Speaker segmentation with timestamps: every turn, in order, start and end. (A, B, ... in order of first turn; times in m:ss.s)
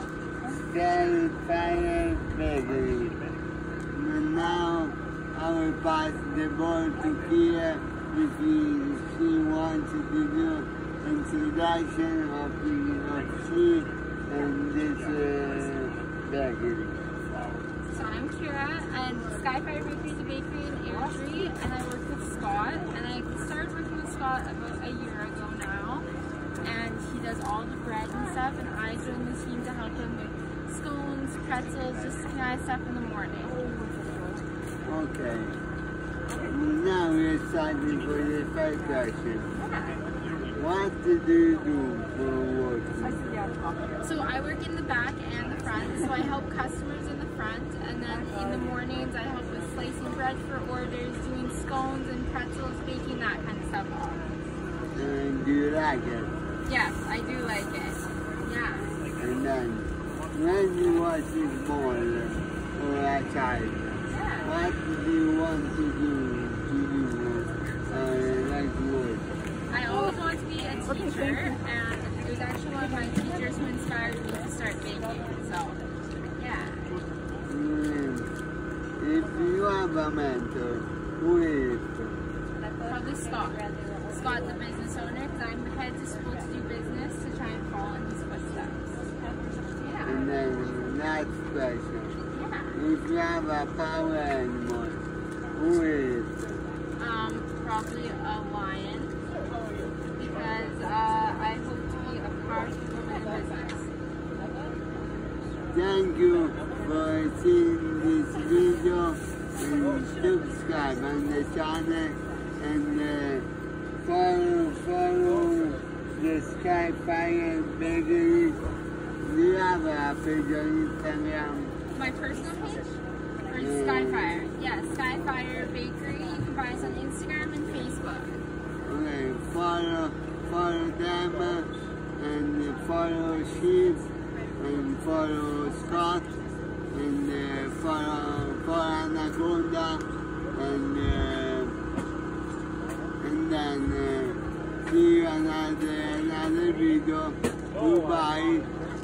0:00.5-0:03.2 A
0:03.9-0:17.0 A
0:17.9-0:26.1 B
0:26.6-0:33.6 B
0:34.8-0:35.6 A
0:36.4-0:39.5 A
0:40.5-0:43.2 A
0:44.0-0:54.3 B
0:54.9-0:56.3 A
0:56.6-0:59.0 B
0:59.2-1:09.3 A
1:04.1-1:04.5 B
1:09.7-1:15.8 B
1:16.4-1:17.0 B
1:17.4-1:18.3 A
1:19.0-1:22.2 A
1:22.8-1:29.0 B
1:29.8-1:30.2 B
1:30.0-1:32.2 A
1:32.3-1:32.8 B
1:32.7-1:35.0 A
1:35.5-1:36.3 A
1:37.0-1:39.2 B
1:40.2-1:43.9 B
1:45.7-1:53.5 A
1:54.0-1:58.6 A
1:59.2-2:01.8 A
2:01.9-2:08.5 B
2:03.6-2:04.4 A
2:08.8-2:16.3 A
2:16.9-2:21.8 A
2:23.2-2:28.7 A